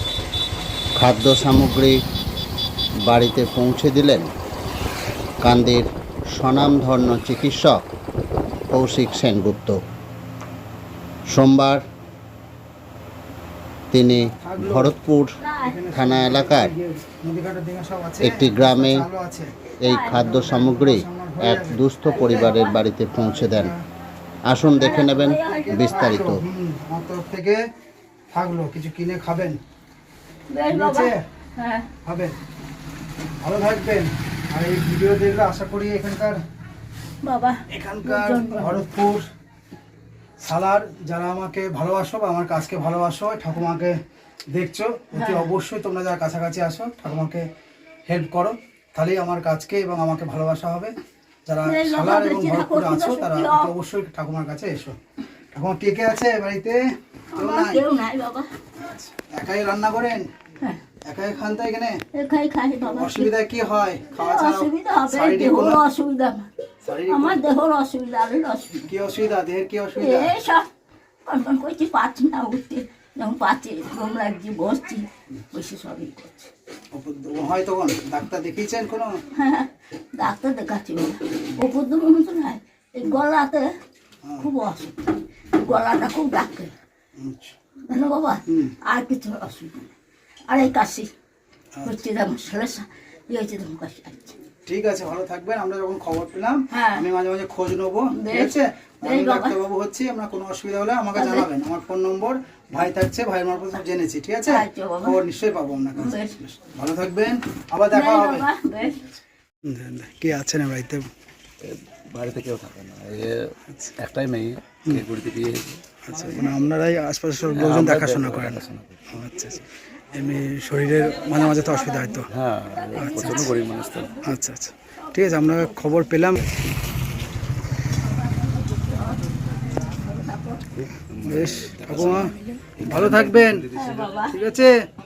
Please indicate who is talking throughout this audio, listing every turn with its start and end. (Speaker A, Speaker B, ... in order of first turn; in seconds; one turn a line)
Speaker A: 1.0-2.0
Speaker A: 3.1-4.3
Speaker A: 5.4-7.8
Speaker A: 8.7-9.8
Speaker A: 11.3-11.8
Speaker A: 13.9-15.3
Speaker B: 14.3-15.0
Speaker C: 15.4-15.8
Speaker B: 15.6-19.5
Speaker A: 15.9-16.7
Speaker A: 18.2-19.0
Speaker A: 19.8-23.7
Speaker C: 19.9-20.3
Speaker B: 20.1-22.6
Speaker C: 22.1-22.8
Speaker B: 23.1-23.8
Speaker A: 24.5-26.4
Speaker C: 24.8-26.3
Speaker B: 25.3-27.6
Speaker B: 28.3-29.6
Speaker C: 30.5-31.9
Speaker B: 30.7-31.2
Speaker B: 32.1-32.4
Speaker B: 33.4-36.4
Speaker C: 37.2-38.9
Speaker B: 37.7-39.3
Speaker B: 40.4-44.0
Speaker B: 44.5-47.5
Speaker C: 45.1-45.5
Speaker B: 48.1-50.9
Speaker B: 51.5-55.0
Speaker C: 51.6-53.7
Speaker B: 55.5-56.8
Speaker C: 57.3-58.5
Speaker B: 57.4-57.8
Speaker B: 58.8-60.3
Speaker B: 61.1-62.0
Speaker C: 62.1-63.3
Speaker B: 62.9-65.8
Speaker C: 64.1-66.5
Speaker B: 66.8-67.4
Speaker C: 67.1-68.9
Speaker B: 68.9-70.3
Speaker C: 70.0-70.7
Speaker C: 71.2-76.5
Speaker B: 76.9-79.2
Speaker C: 79.4-83.7
Speaker C: 84.4-85.0
Speaker C: 85.6-86.7
Speaker B: 87.2-87.5
Speaker C: 87.9-89.9
Speaker B: 88.5-88.7
Speaker C: 90.5-91.1
Speaker C: 91.8-94.4
Speaker B: 94.7-108.5
Speaker C: 96.7-97.1
Speaker C: 98.1-99.6
Speaker C: 101.2-101.5
Speaker C: 104.5-105.2
Speaker C: 106.0-106.3
Speaker C: 107.9-109.1
Speaker B: 109.7-111.1
Speaker D: 111.6-115.8
Speaker B: 116.1-122.3
Speaker D: 117.5-119.0
Speaker C: 121.1-123.8
Speaker D: 122.3-124.2
Speaker B: 123.0-123.5
Speaker B: 124.2-126.4
Speaker C: 125.1-125.7
Speaker C: 128.7-130.7
Speaker D: 130.9-134.1
Speaker B: 131.2-132.3
Speaker C: 131.9-133.0
Speaker B: 132.9-133.7
Speaker C: 133.8-134.4
Speaker B: 134.3-134.8